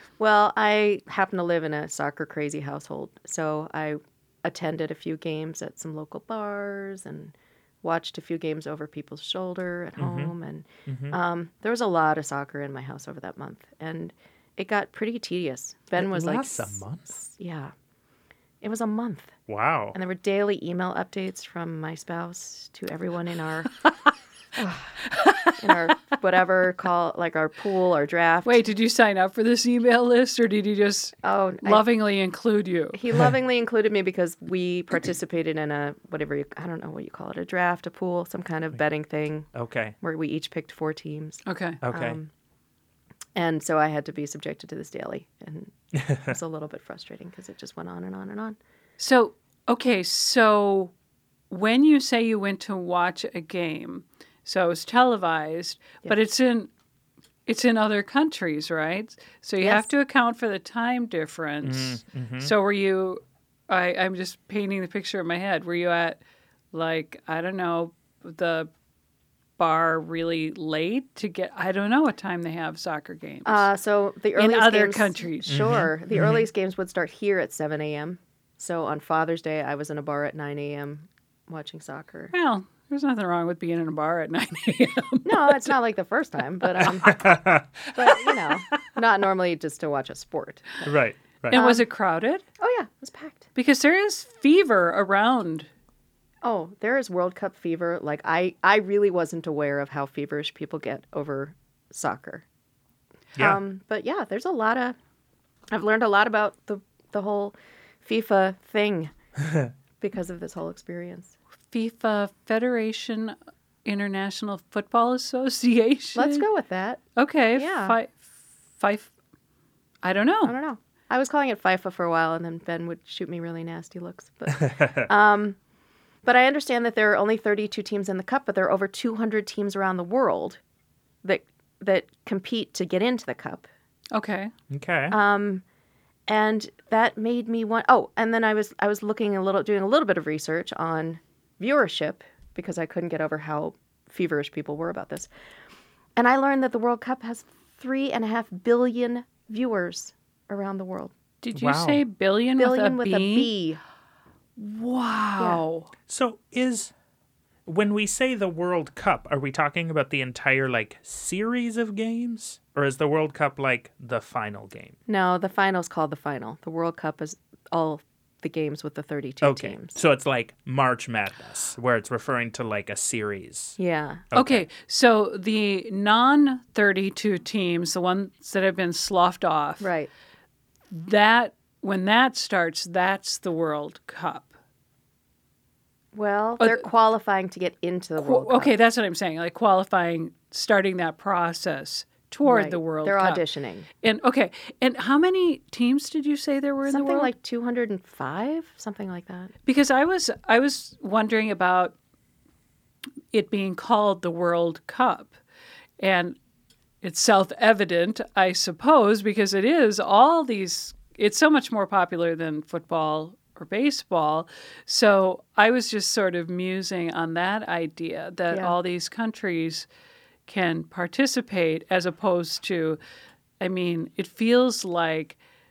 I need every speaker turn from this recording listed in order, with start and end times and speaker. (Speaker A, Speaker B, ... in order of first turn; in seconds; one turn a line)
Speaker A: 0.2-17.7
Speaker B: 10.0-10.3
Speaker B: 10.9-11.2
Speaker B: 16.0-17.1
Speaker A: 18.6-19.3
Speaker B: 19.5-20.0
Speaker A: 19.9-23.8
Speaker A: 24.6-25.0
Speaker C: 25.1-25.7
Speaker A: 25.6-28.6
Speaker C: 28.4-33.0
Speaker A: 31.2-31.9
Speaker A: 32.9-39.5
Speaker B: 39.5-40.0
Speaker A: 40.0-42.3
Speaker C: 41.5-41.8
Speaker B: 41.8-42.2
Speaker A: 43.4-48.6
Speaker B: 46.0-46.3
Speaker C: 49.0-50.9
Speaker C: 51.5-56.7
Speaker C: 57.5-66.2
Speaker A: 59.6-59.9
Speaker B: 61.6-62.5
Speaker C: 66.7-68.7
Speaker C: 69.6-73.7
Speaker A: 73.5-82.3
Speaker C: 74.4-75.6
Speaker B: 75.5-76.4
Speaker C: 82.3-85.7
Speaker A: 85.2-87.4
Speaker B: 87.0-87.6
Speaker A: 87.9-90.9
Speaker B: 90.8-91.6
Speaker C: 91.5-92.4
Speaker A: 91.5-91.9
Speaker A: 92.6-93.5
Speaker C: 93.6-95.7
Speaker A: 96.4-102.4
Speaker A: 103.4-105.0
Speaker A: 105.7-109.1
Speaker A: 110.0-111.3
Speaker C: 111.7-116.5
Speaker A: 116.2-117.0
Speaker C: 117.2-119.1
Speaker A: 117.6-118.0
Speaker C: 120.0-120.5
Speaker A: 120.5-125.6
Speaker B: 124.6-125.1
Speaker A: 126.2-130.6
Speaker A: 131.2-133.7
Speaker C: 134.1-134.5
Speaker B: 134.7-135.2
Speaker A: 135.1-135.6
Speaker A: 136.3-145.3
Speaker A: 146.2-151.1
Speaker C: 151.4-153.5
Speaker B: 151.5-152.0
Speaker A: 152.6-153.8
Speaker C: 154.6-155.9
Speaker B: 156.1-156.9
Speaker B: 157.7-165.0
Speaker A: 165.1-170.0
Speaker B: 169.4-173.8
Speaker A: 173.8-174.2
Speaker B: 174.3-174.7
Speaker C: 174.3-179.9
Speaker A: 179.8-180.1
Speaker C: 180.9-184.5
Speaker A: 186.1-188.7
Speaker C: 186.6-186.9
Speaker C: 188.2-193.4
Speaker A: 192.4-193.9
Speaker C: 194.0-197.3
Speaker A: 196.9-199.5
Speaker C: 199.7-201.9
Speaker C: 203.3-205.3
Speaker C: 206.0-206.4
Speaker C: 207.0-219.9
Speaker C: 220.5-223.0
Speaker C: 223.6-225.4